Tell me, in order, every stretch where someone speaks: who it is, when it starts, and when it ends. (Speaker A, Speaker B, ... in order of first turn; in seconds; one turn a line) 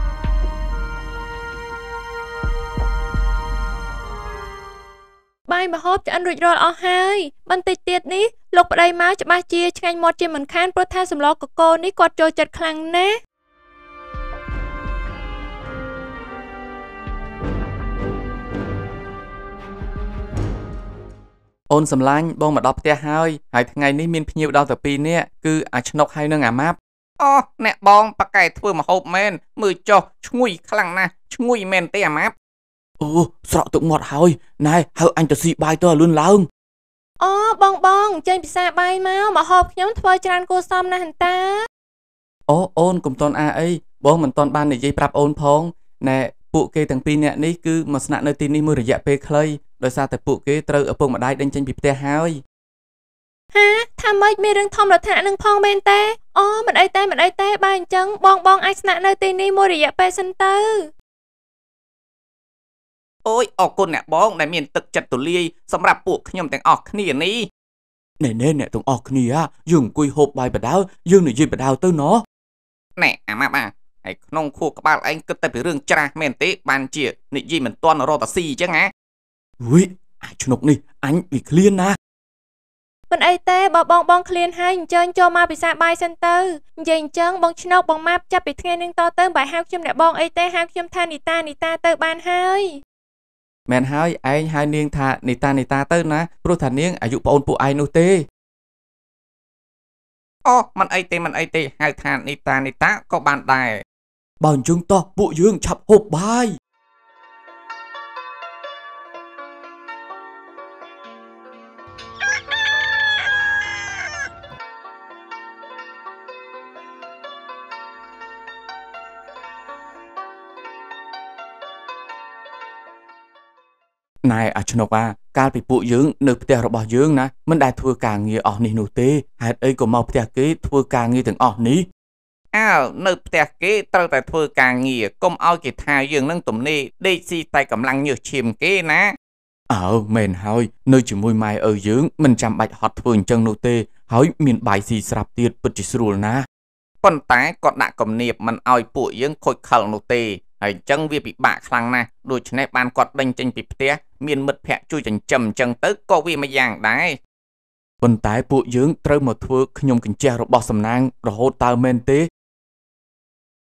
Speaker A: 5.5-13.2
Speaker B: 21.7-26.8
Speaker C: 27.2-32.3
Speaker B: 33.0-36.5
Speaker A: 37.2-41.7
Speaker B: 42.5-52.4
Speaker A: 53.5-60.9
Speaker C: 63.2-67.4
Speaker B: 68.2-72.2
Speaker C: 73.0-78.9
Speaker B: 79.6-82.0
Speaker A: 83.1-92.8
Speaker B: 93.7-98.2
Speaker C: 100.4-103.8
Speaker B: 104.4-106.5
Speaker B: 124.2-131.8
Speaker C: 132.5-139.1
Speaker B: 139.7-146.4
Speaker C: 147.0-157.2
Speaker B: 158.0-162.3